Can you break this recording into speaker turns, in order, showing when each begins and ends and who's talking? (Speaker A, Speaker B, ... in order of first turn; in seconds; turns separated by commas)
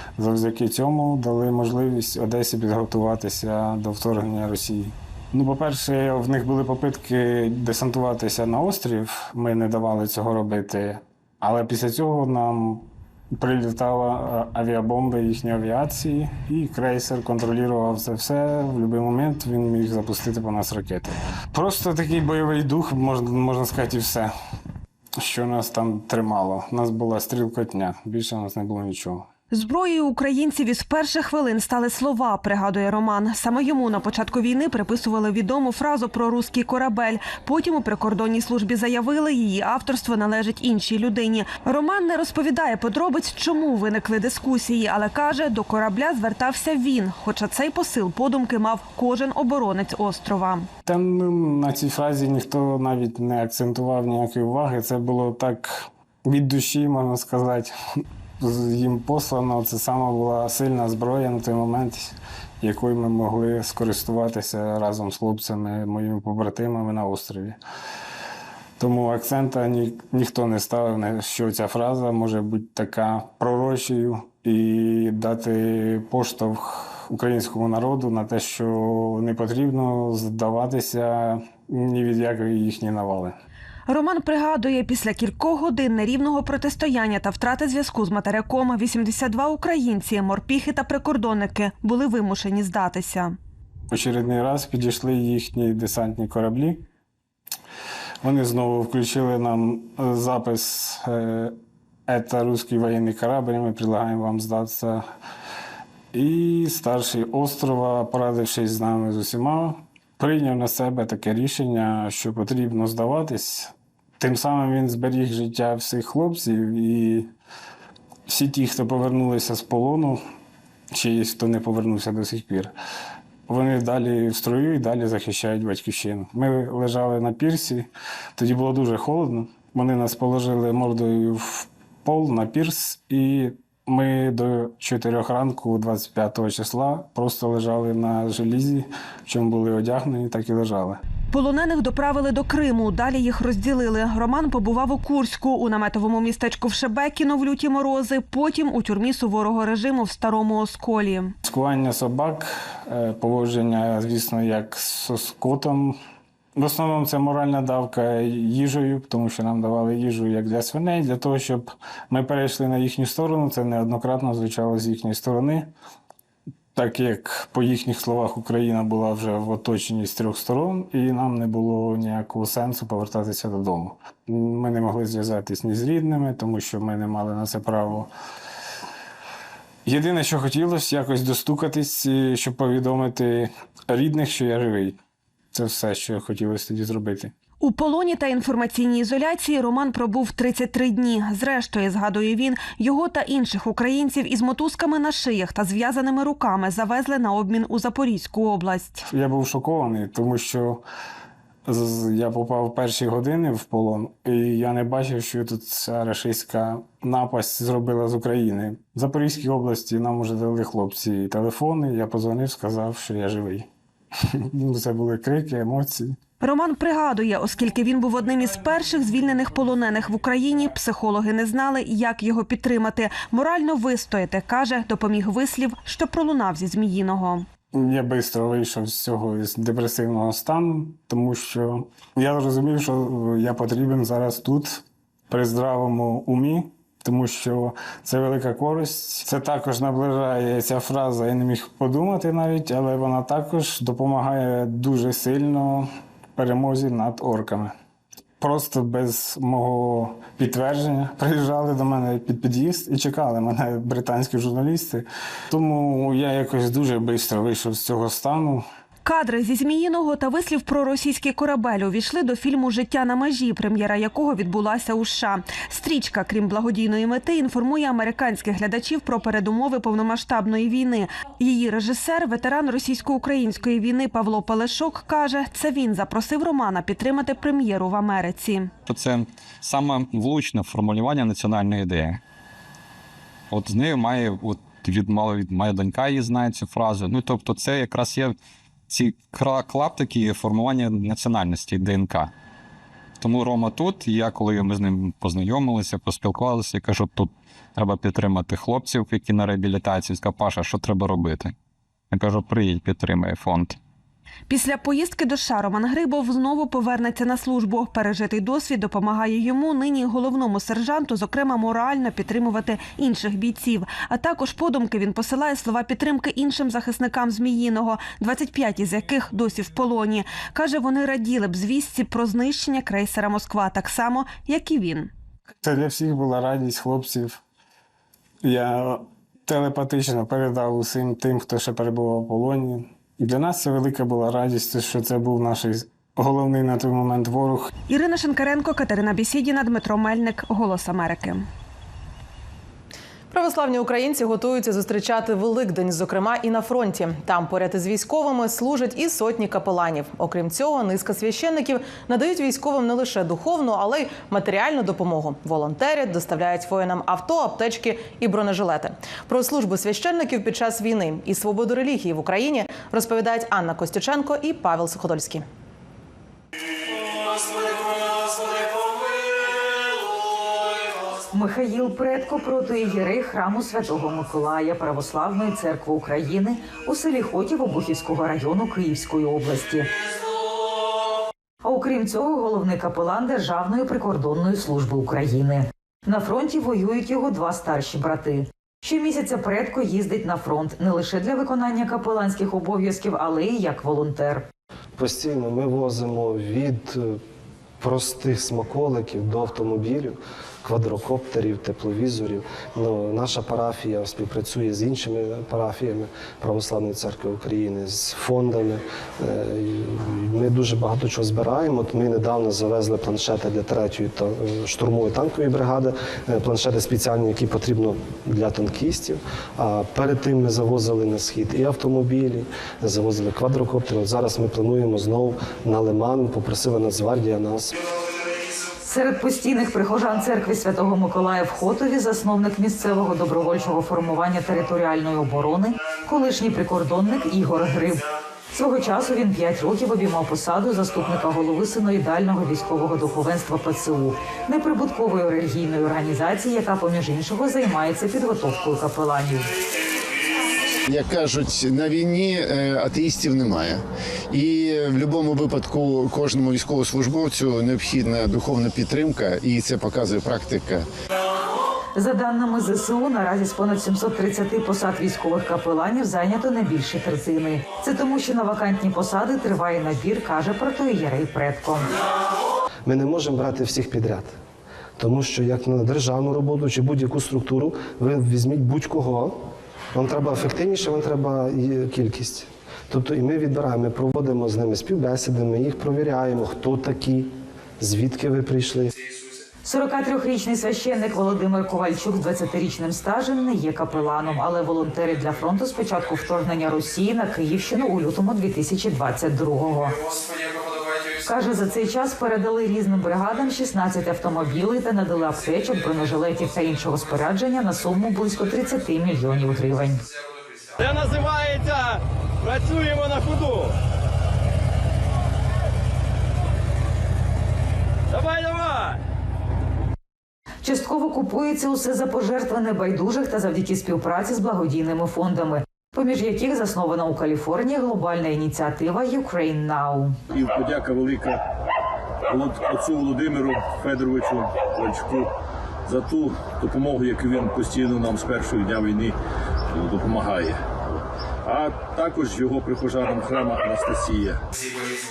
Speaker A: 0.2-24.3, Speaker A: 25.2-29.3, Speaker B: 29.5-50.7, Speaker A: 50.9-57.7, Speaker A: 58.4-67.6, Speaker A: 68.8-83.4, Speaker B: 83.9-93.4, Speaker A: 93.9-96.9, Speaker A: 98.2-101.6, Speaker A: 102.1-105.0, Speaker A: 106.1-117.3, Speaker A: 118.3-120.2, Speaker A: 120.9-122.7, Speaker A: 123.5-141.0, Speaker B: 141.3-151.3, Speaker A: 151.4-156.0, Speaker A: 156.6-165.7, Speaker A: 166.8-178.1, Speaker A: 179.8-185.0, Speaker A: 185.5-187.3, Speaker B: 187.6-199.0, Speaker A: 199.1-200.8, Speaker A: 201.7-213.7, Speaker A: 214.2-216.2, Speaker B: 216.4-227.5, Speaker A: 227.7-247.7, Speaker A: 248.4-258.6, Speaker B: 259.1-278.7, Speaker C: 278.9-282.2, Speaker C: 283.5-288.4, Speaker C: 288.9-292.3, Speaker C: 293.2-301.5, Speaker C: 302.1-303.8, Speaker B: 304.5-325.1, Speaker A: 325.6-327.4, Speaker A: 328.4-337.7, Speaker B: 337.9-341.5, Speaker D: 343.3-365.4, Speaker E: 371.3-379.9, Speaker E: 381.6-394.5, Speaker F: 395.0-397.2, Speaker F: 397.8-427.7, Speaker E: 428.8-449.5, Speaker G: 450.8-460.9, Speaker E: 462.0-471.9, Speaker F: 472.9-474.4, Speaker F: 475.0-479.4, Speaker F: 479.9-488.9, Speaker E: 489.6-500.0, Speaker E: 501.2-510.0, Speaker H: 510.8-513.8, Speaker H: 518.1-519.0, Speaker E: 520.6-530.2, Speaker I: 530.3-531.4, Speaker I: 532.3-535.3, Speaker I: 535.9-539.1, Speaker I: 539.7-540.8, Speaker I: 541.5-544.4